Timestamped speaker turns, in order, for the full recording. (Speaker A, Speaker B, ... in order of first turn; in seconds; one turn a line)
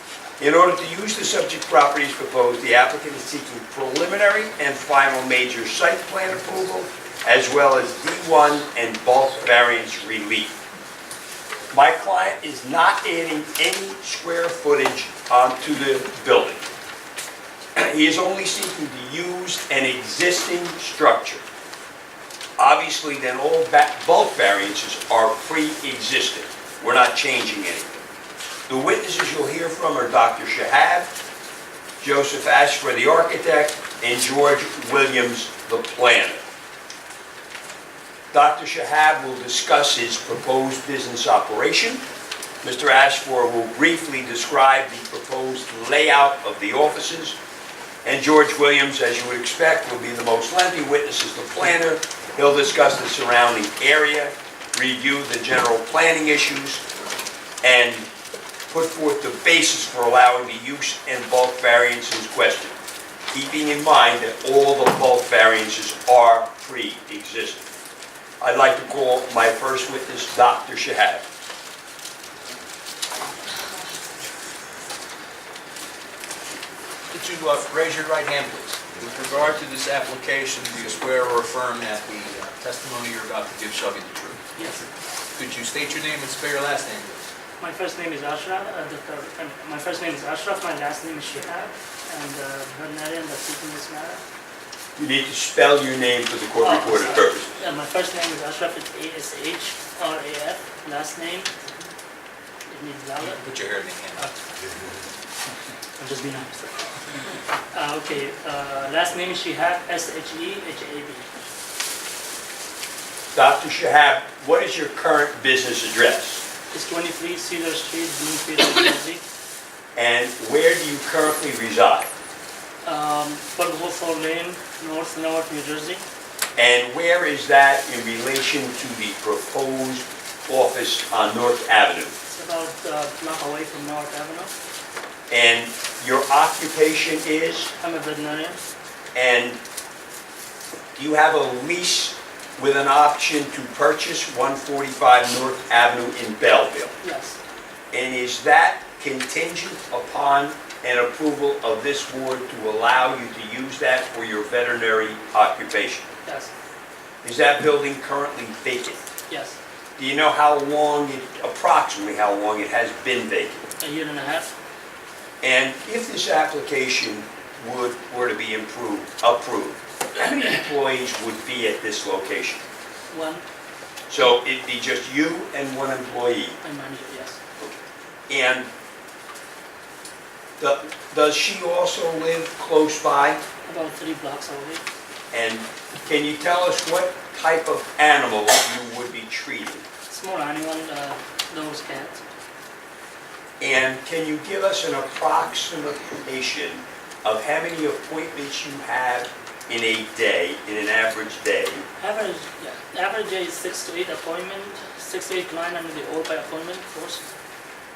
Speaker A: 0.4-10.6
Speaker A: 11.7-16.6
Speaker A: 17.8-21.4
Speaker A: 22.6-28.0
Speaker A: 28.7-31.1
Speaker A: 32.0-36.4
Speaker A: 38.3-42.0
Speaker A: 42.6-47.4
Speaker A: 48.0-56.8
Speaker A: 57.6-58.1
Speaker A: 58.7-62.8
Speaker A: 63.3-67.7
Speaker A: 68.4-71.2
Speaker B: 77.1-84.4
Speaker C: 84.5-84.9
Speaker B: 85.3-87.2
Speaker C: 87.6-94.2
Speaker A: 95.0-97.5
Speaker C: 96.6-101.5
Speaker C: 102.7-103.4
Speaker B: 103.2-104.3
Speaker C: 106.0-107.0
Speaker C: 107.7-111.3
Speaker A: 113.3-116.4
Speaker C: 116.7-119.2
Speaker A: 119.9-122.1
Speaker C: 122.8-126.0
Speaker A: 126.5-132.1
Speaker C: 132.3-134.5
Speaker A: 135.3-137.7
Speaker C: 137.8-138.6
Speaker A: 139.1-139.6
Speaker A: 140.9-146.9
Speaker C: 147.0-147.4
Speaker A: 147.9-156.1
Speaker C: 156.2-156.5
Speaker A: 157.2-159.0
Speaker C: 159.3-159.6
Speaker A: 160.0-163.7
Speaker C: 163.8-164.5
Speaker A: 165.4-172.6
Speaker C: 173.1-173.4
Speaker A: 174.1-176.6
Speaker C: 176.6-177.4
Speaker A: 177.6-178.7
Speaker A: 180.6-183.4
Speaker C: 183.7-184.8
Speaker A: 185.3-189.8
Speaker C: 190.1-192.2
Speaker A: 193.6-201.8
Speaker C: 202.0-207.2